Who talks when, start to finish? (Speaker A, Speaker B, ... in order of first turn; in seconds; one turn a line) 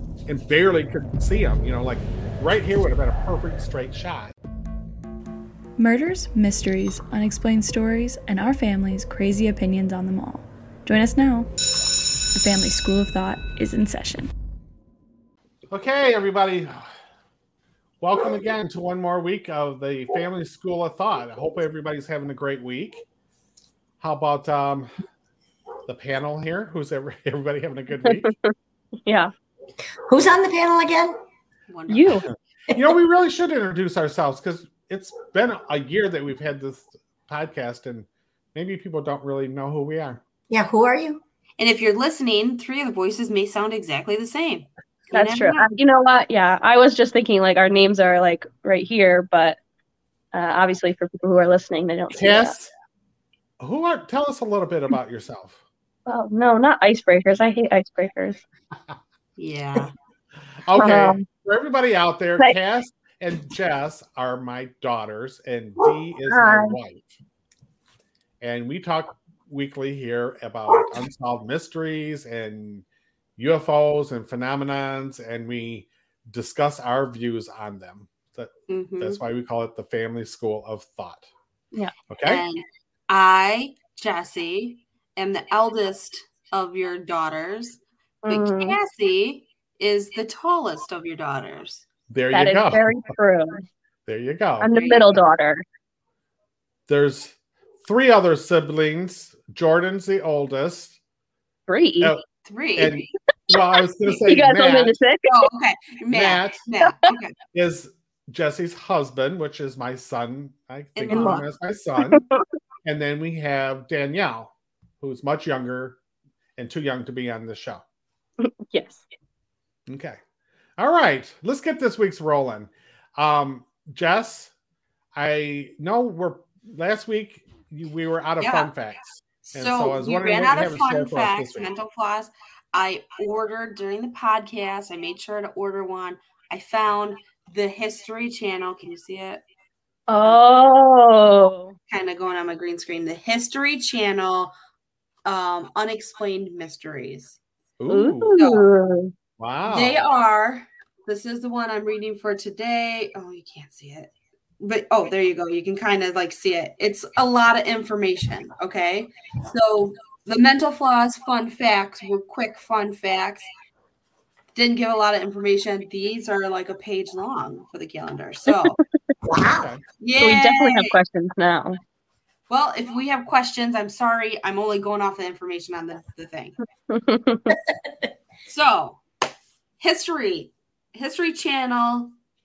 Speaker A: 0.3-4.3
Speaker B: 5.8-11.5
Speaker B: 12.3-14.3
Speaker A: 15.7-16.9
Speaker A: 18.0-23.0
Speaker A: 24.0-24.9
Speaker A: 25.9-28.3
Speaker C: 28.0-28.5
Speaker C: 29.1-29.3
Speaker D: 30.0-31.1
Speaker E: 31.7-32.1
Speaker C: 31.9-32.2
Speaker A: 32.2-40.2
Speaker D: 40.5-41.2
Speaker E: 41.6-45.6
Speaker C: 45.1-49.6
Speaker C: 50.3-52.5
Speaker A: 52.1-52.7
Speaker A: 53.6-55.6
Speaker C: 56.0-58.4
Speaker E: 59.4-59.9
Speaker A: 60.6-67.2
Speaker C: 60.8-61.2
Speaker C: 66.3-66.7
Speaker A: 68.4-72.8
Speaker A: 73.4-81.3
Speaker E: 78.7-79.2
Speaker A: 82.1-82.4
Speaker E: 82.2-91.8
Speaker C: 88.2-88.8
Speaker A: 92.1-92.9
Speaker C: 92.3-93.6
Speaker A: 94.1-94.7
Speaker C: 94.6-95.6
Speaker E: 94.7-95.2
Speaker A: 96.9-101.0
Speaker C: 101.7-102.1
Speaker E: 102.4-103.0
Speaker A: 102.8-104.9
Speaker C: 104.1-105.5
Speaker E: 105.3-107.3
Speaker A: 106.1-106.6
Speaker C: 106.8-107.1
Speaker A: 107.5-112.2
Speaker E: 111.0-111.4
Speaker C: 111.1-111.4
Speaker C: 112.1-112.4
Speaker A: 112.8-116.0
Speaker A: 116.6-117.8
Speaker C: 118.4-119.0
Speaker A: 119.9-120.2
Speaker A: 120.8-124.5
Speaker A: 125.1-131.7
Speaker E: 128.4-128.7
Speaker E: 129.5-139.4
Speaker C: 140.1-141.7
Speaker E: 141.9-144.5
Speaker E: 145.2-147.4
Speaker A: 147.8-148.3
Speaker C: 147.9-149.1
Speaker E: 148.4-148.7
Speaker A: 149.4-150.1
Speaker E: 149.7-163.5
Speaker E: 164.5-168.8
Speaker D: 169.2-169.7
Speaker E: 170.0-170.9
Speaker C: 170.2-171.8
Speaker E: 172.5-176.6
Speaker C: 176.9-177.5
Speaker D: 177.5-178.1
Speaker E: 178.5-179.0
Speaker E: 179.8-182.1